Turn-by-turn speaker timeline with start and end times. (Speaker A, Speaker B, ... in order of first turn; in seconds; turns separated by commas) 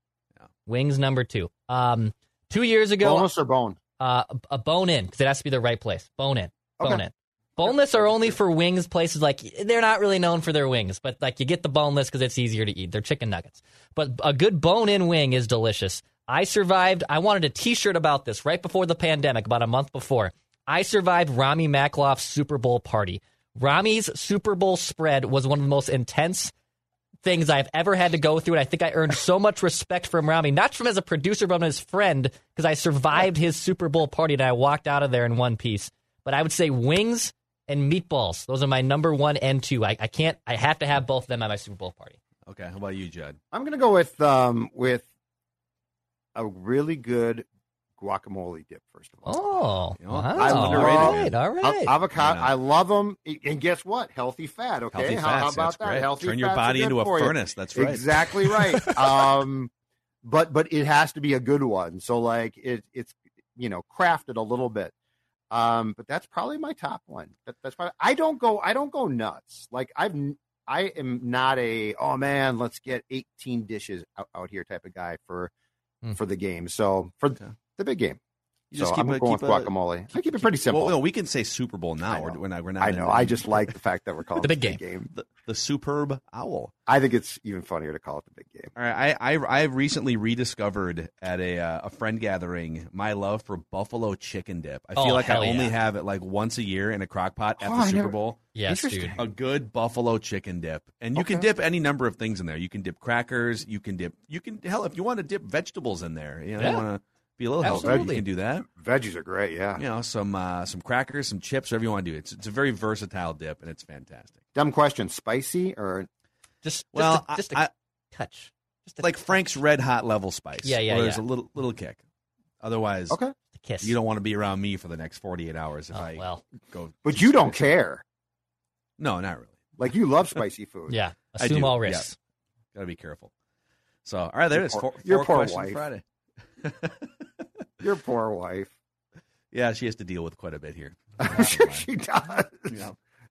Speaker A: 0.7-3.3, Speaker B: 3.0-3.8, Speaker A: 4.0-26.5, Speaker B: 7.7-8.3, Speaker A: 27.2-42.2, Speaker C: 42.5-43.4, Speaker B: 43.5-45.0, Speaker B: 46.4-47.5, Speaker B: 48.0-49.6, Speaker A: 49.3-52.0, Speaker C: 50.0-51.3, Speaker B: 50.4-59.7, Speaker C: 52.1-52.5, Speaker C: 54.9-59.3, Speaker B: 60.2-64.9, Speaker B: 65.5-75.5, Speaker B: 76.2-78.2, Speaker C: 78.7-79.7, Speaker B: 78.8-81.0, Speaker C: 80.4-83.7, Speaker B: 82.1-85.1, Speaker A: 84.4-84.8, Speaker C: 85.1-86.7, Speaker B: 86.9-88.7, Speaker C: 88.8-98.4, Speaker A: 95.0-95.7, Speaker B: 97.6-98.2, Speaker A: 98.5-99.2, Speaker B: 98.7-99.2, Speaker C: 99.2-108.7, Speaker B: 101.2-101.5, Speaker A: 106.6-106.8, Speaker A: 107.6-108.2, Speaker B: 107.7-109.8, Speaker C: 109.8-114.4, Speaker B: 114.6-116.1, Speaker A: 116.6-119.6, Speaker C: 116.9-117.7, Speaker C: 119.0-122.0, Speaker A: 120.6-121.2, Speaker C: 122.6-123.2, Speaker A: 123.6-124.0, Speaker C: 123.8-127.6, Speaker A: 125.9-126.4, Speaker B: 127.0-128.0, Speaker C: 129.0-129.6, Speaker B: 129.8-131.0, Speaker A: 130.9-132.2, Speaker C: 131.4-132.1, Speaker C: 132.7-133.3, Speaker C: 134.1-136.0, Speaker B: 134.6-135.8, Speaker C: 136.6-137.1, Speaker B: 137.8-138.7, Speaker C: 139.5-141.9, Speaker B: 141.2-142.8, Speaker C: 142.7-143.0